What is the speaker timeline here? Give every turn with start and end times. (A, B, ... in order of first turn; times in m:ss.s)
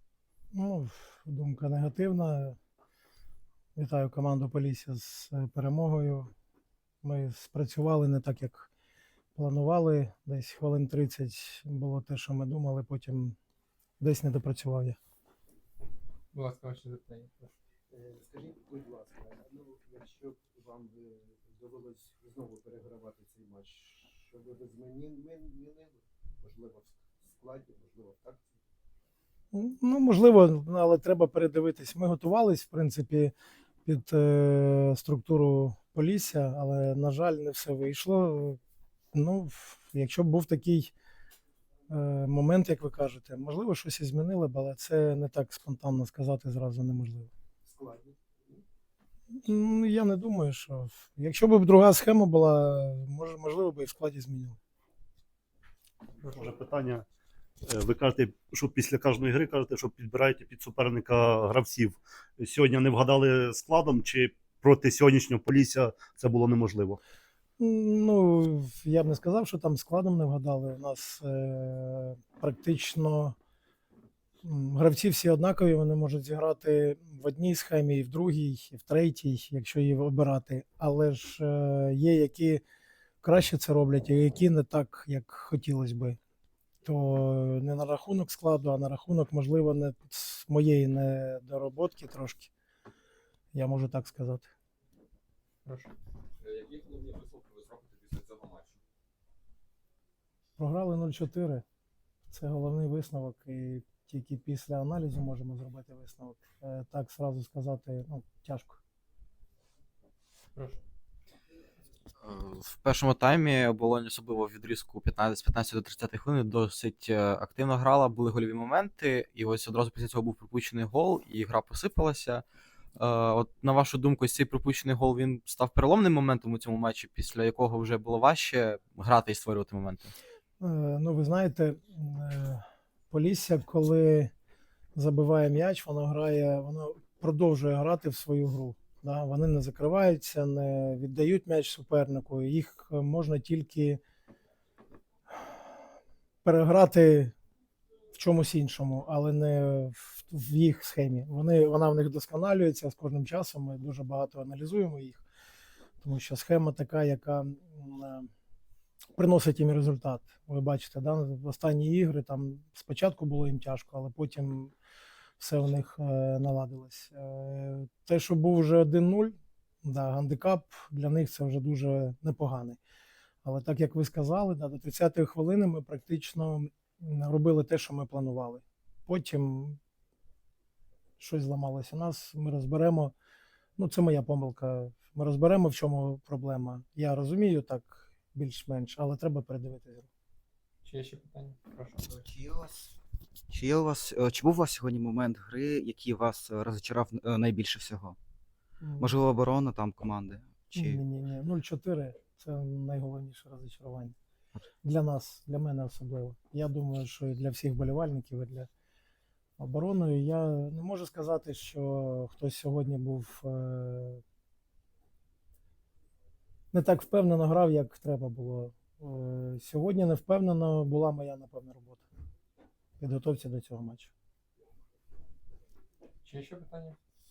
0:00.5-0:02.6 A
0:03.8-0:06.3 A
0:07.0-0:08.7 A
0:09.3-0:13.4 A
0:14.0-0:15.0 A
0:16.3-0:17.5 B
0:17.9-0:28.6 C
0:29.5-0:33.3 A
0:33.8-0:38.6 A
0:39.1-0:40.9 A
0:41.9-0:47.3 A
0:47.6-0:48.6 C
0:49.3-0:54.6 A
0:56.2-0:56.5 B
0:56.3-0:57.0 D
0:57.6-1:07.0 D
1:07.6-1:13.4 A
1:14.4-1:22.6 A
1:23.2-1:26.2 A
1:26.8-1:32.5 A
1:33.5-1:34.5 A
1:35.6-1:35.9 B
1:36.4-1:38.8 E
1:40.6-1:41.6 A
1:42.3-1:48.8 A
1:50.5-1:50.8 B
1:52.2-2:02.4 F
2:03.0-2:10.1 F
2:10.6-2:14.3 A
2:15.0-2:24.0 A
2:26.4-2:27.3 A
2:28.1-2:35.2 A
2:36.0-2:38.3 A
2:39.2-2:44.7 A
2:45.4-2:52.8 A
2:53.4-2:59.8 A
3:01.2-3:03.1 A
3:03.8-3:10.1 A
3:10.8-3:12.2 B
3:12.1-3:12.9 G
3:13.5-3:18.2 G
3:18.8-3:19.1 A
3:19.0-3:21.0 G
3:20.7-3:24.1 A
3:24.8-3:28.7 A
3:29.6-3:34.2 A
3:36.7-3:42.0 A
3:43.0-3:44.1 A
3:46.2-3:47.0 B